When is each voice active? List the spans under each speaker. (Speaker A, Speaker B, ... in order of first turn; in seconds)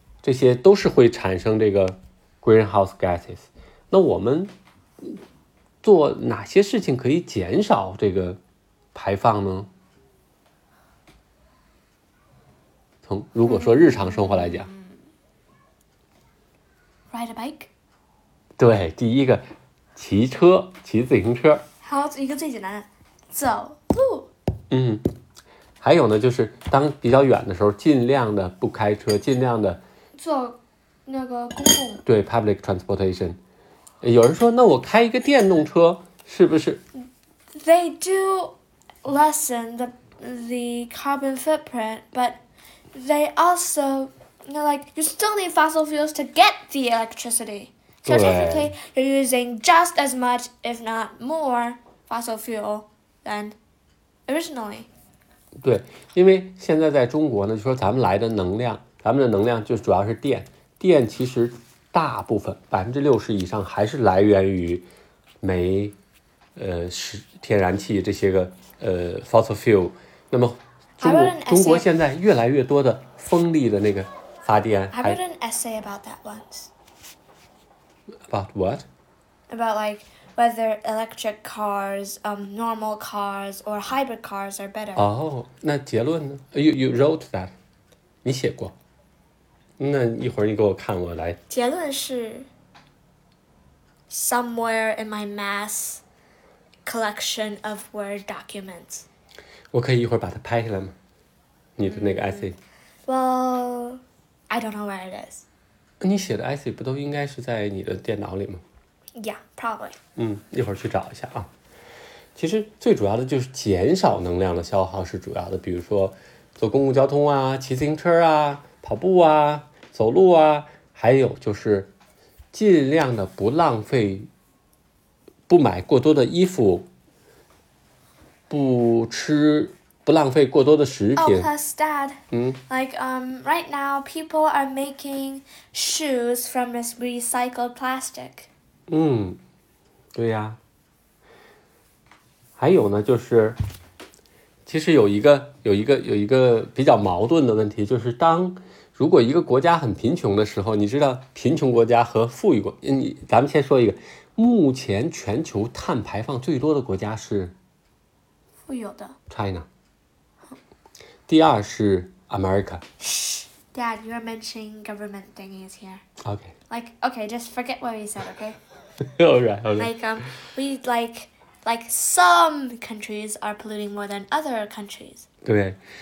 Speaker A: 0.2-5.2, 5.8-8.4, 8.9-9.7, 13.0-14.7, 18.6-21.6, 24.7-25.0, 25.8-29.8, 32.0-33.4, 34.0-36.8, 48.0-48.7, 55.6-64.8, 65.4-66.0, 66.5-75.2, 78.3-78.8, 85.0-87.5, 88.2-88.7, 89.8-91.4, 99.7-100.9, 101.8-102.5, 106.0-108.6, 110.2-111.5, 112.3-121.9, 122.5-124.3, 125.5-126.9, 128.5-131.5, 132.3-132.6, 138.9-139.4, 140.1-140.6, 142.6-143.6, 144.7-157.5, 159.3-159.7, 161.3-162.8, 166.2-166.5, 169.1-169.9, 175.4-175.8
Speaker B: 13.4-15.0, 17.1-17.7, 21.8-24.3, 30.1-32.0, 37.5-42.4, 42.9-53.5, 54.3-54.9, 71.0-71.9, 74.9-76.7, 79.5-85.0, 91.5-92.5, 94.1-96.0, 96.8-99.0, 101.8-102.5, 103.0-105.5, 109.2-110.0, 131.2-138.5, 158.7-159.2, 163.0-166.0, 166.7-168.6, 169.8-175.2